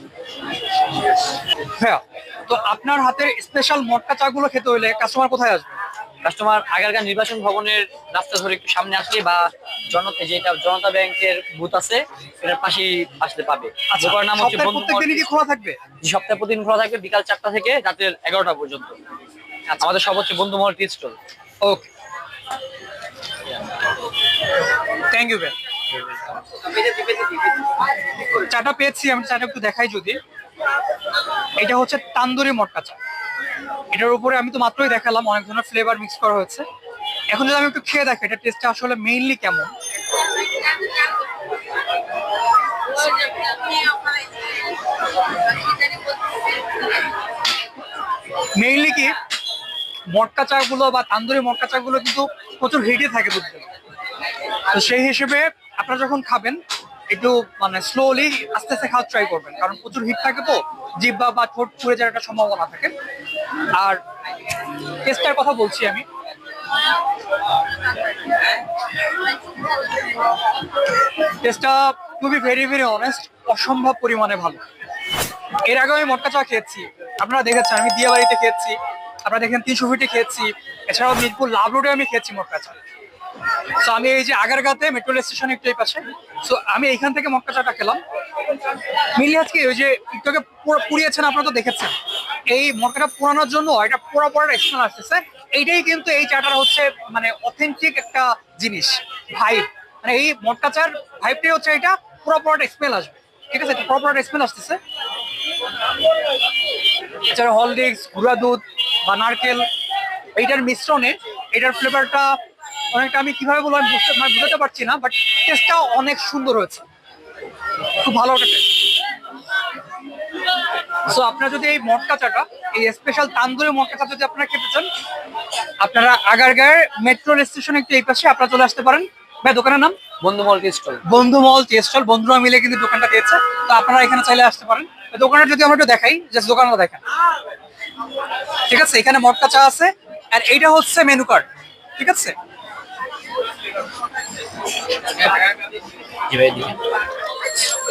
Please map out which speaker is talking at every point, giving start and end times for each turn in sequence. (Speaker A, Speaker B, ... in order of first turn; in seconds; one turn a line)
Speaker A: 1.8-5.8
Speaker B: 6.2-15.3
Speaker A: 13.9-15.8
Speaker B: 16.0-18.9
Speaker A: 19.7-19.9
Speaker B: 19.8-21.1
Speaker A: 21.6-21.9
Speaker A: 25.1-25.5
Speaker B: 26.9-27.3
Speaker A: 28.4-30.2
Speaker A: 31.6-33.0
Speaker A: 33.9-36.6
Speaker A: 37.3-39.7
Speaker B: 43.4-43.8
Speaker A: 48.6-49.2
Speaker A: 50.1-53.7
Speaker A: 54.7-56.6
Speaker A: 57.1-62.9
Speaker A: 65.0-66.0
Speaker A: 71.4-74.6
Speaker A: 75.6-82.8
Speaker A: 83.8-88.0
Speaker A: 89.2-91.9
Speaker A: 92.5-104.8
Speaker A: 107.3-109.7
Speaker A: 110.3-112.4
Speaker A: 112.9-116.8
Speaker A: 118.0-118.7
Speaker A: 121.0-124.9
Speaker A: 125.8-130.0
Speaker B: 130.2-131.0
Speaker A: 131.1-137.0
Speaker A: 138.7-141.4
Speaker A: 142.0-142.3
Speaker B: 146.3-146.8